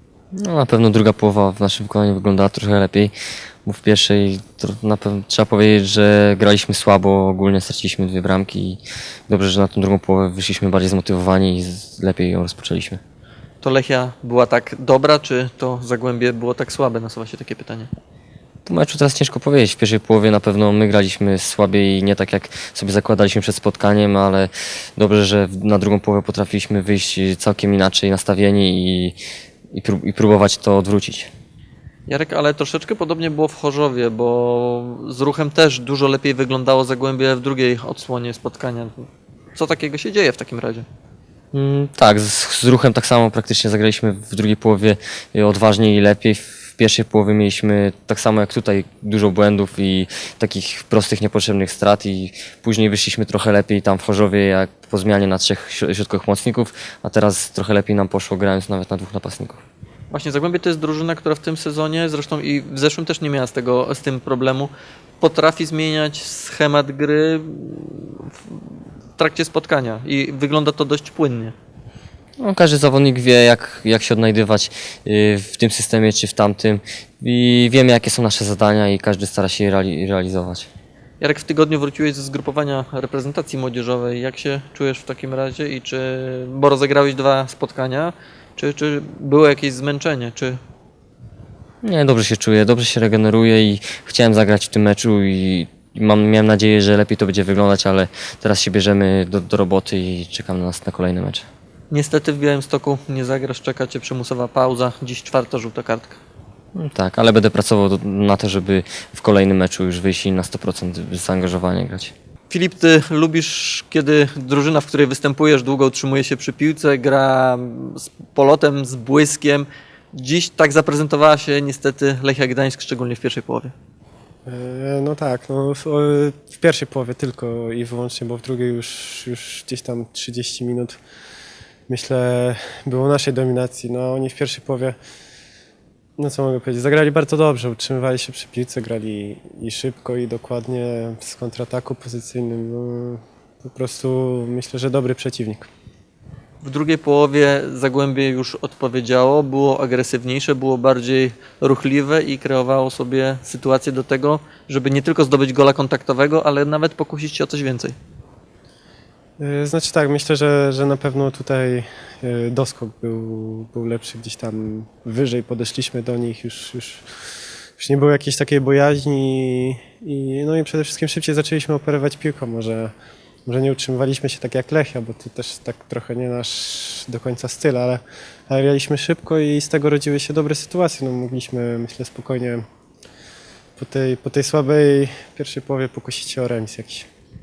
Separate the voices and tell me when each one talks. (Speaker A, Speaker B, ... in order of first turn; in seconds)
Speaker A: 0.4-3.1, 3.6-13.0, 18.6-29.2, 29.7-31.3, 41.5-59.6, 72.4-80.7, 91.8-101.5, 106.7-112.1
Speaker B: 13.6-17.9, 32.1-40.8, 60.1-71.5, 81.2-90.6, 101.9-106.2, 112.5-123.7, 146.6-157.9
Speaker C: 124.5-131.0, 131.9-135.0, 136.2-145.7, 159.4-167.0, 167.8-172.9, 173.4-182.6, 183.8-187.1